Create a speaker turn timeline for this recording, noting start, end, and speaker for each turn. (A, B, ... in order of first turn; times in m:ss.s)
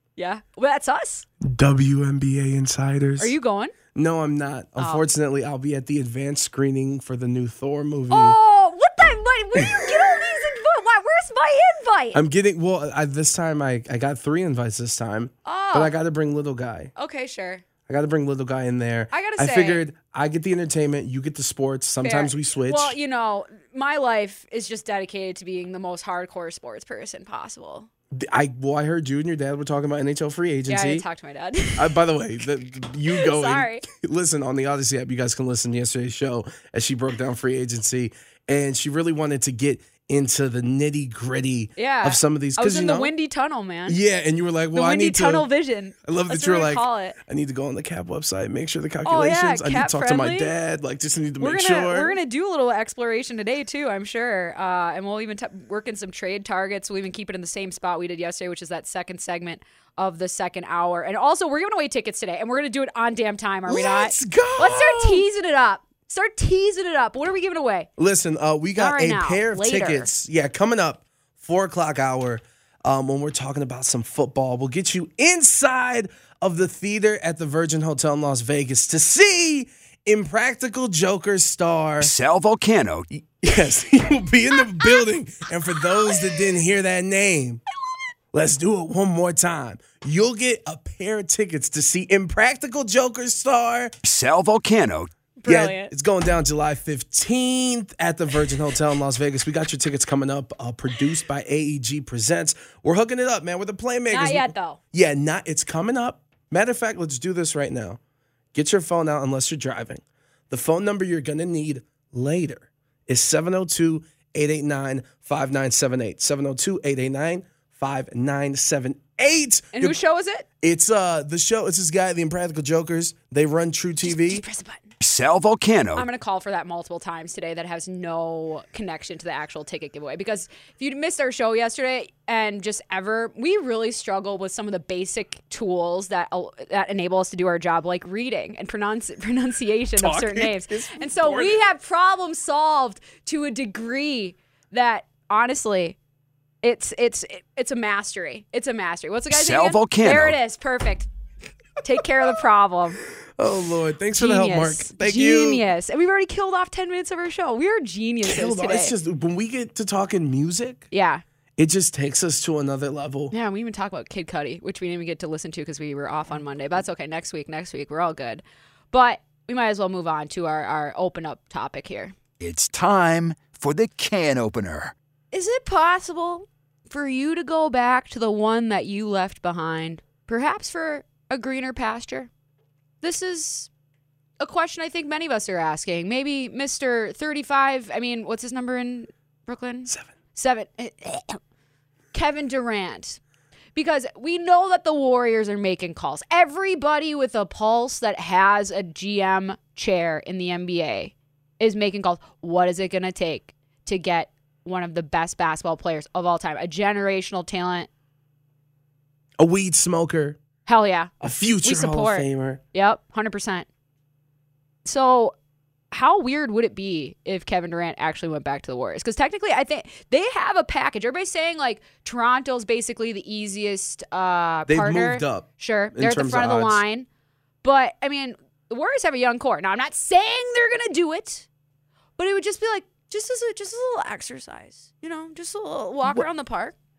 0:00.2-0:01.2 A
0:01.4-0:03.3 B
0:03.2-0:03.7 A
0:03.9-0:08.4 B
0:04.8-0:05.0 A
0:08.1-0:12.2 A
0:09.6-0:10.2 B
0:12.1-0:16.9 B
0:15.4-0:15.9 A
0:17.0-0:17.6 A
0:17.9-0:23.0 B
0:19.1-0:19.8 A
0:22.0-0:27.9 A
0:28.1-0:31.0 B
0:30.7-0:32.0 A
0:31.7-0:43.1 B
0:33.1-0:33.8 A
0:41.8-0:44.0 A
0:43.9-0:45.5 B
0:44.7-0:47.2 A
0:46.0-0:52.2 B
0:49.0-0:50.5 A
0:51.4-1:07.9 A
1:03.6-1:05.2 B
1:08.0-1:22.1 B
1:08.8-1:10.1 A
1:22.0-1:23.1 C
1:23.4-1:27.6 B
1:28.3-1:33.9 B
1:34.0-1:35.1 C
1:35.4-1:35.9 A
1:35.4-1:48.0 B
1:44.1-1:44.8 A
1:48.5-2:00.0 B
1:59.7-2:00.4 A
2:00.6-2:04.4 B
2:04.0-2:04.8 A
2:05.0-2:06.1 C
2:05.9-2:26.0 A
2:20.0-2:21.6 B
2:26.6-2:31.1 A
2:29.3-2:30.4 C
2:31.8-2:33.0 A
2:33.4-2:35.6 B
2:34.1-2:38.9 A
2:38.2-2:40.8 B
2:40.9-2:41.2 A
2:41.6-2:43.3 B
2:43.3-2:52.1 A
2:52.4-2:54.9 C
2:55.3-3:02.3 A
3:03.0-3:03.7 A
3:04.4-3:11.4 A
3:12.1-3:13.2 A
3:13.7-3:27.9 A
3:29.4-3:30.4 B
3:30.6-3:31.1 A
3:31.2-3:32.6 B
3:31.6-3:33.7 A
3:34.8-3:35.3 A
3:35.9-3:47.1 A
3:44.7-3:46.8 B
3:47.6-3:51.5 A
3:52.2-3:56.7 A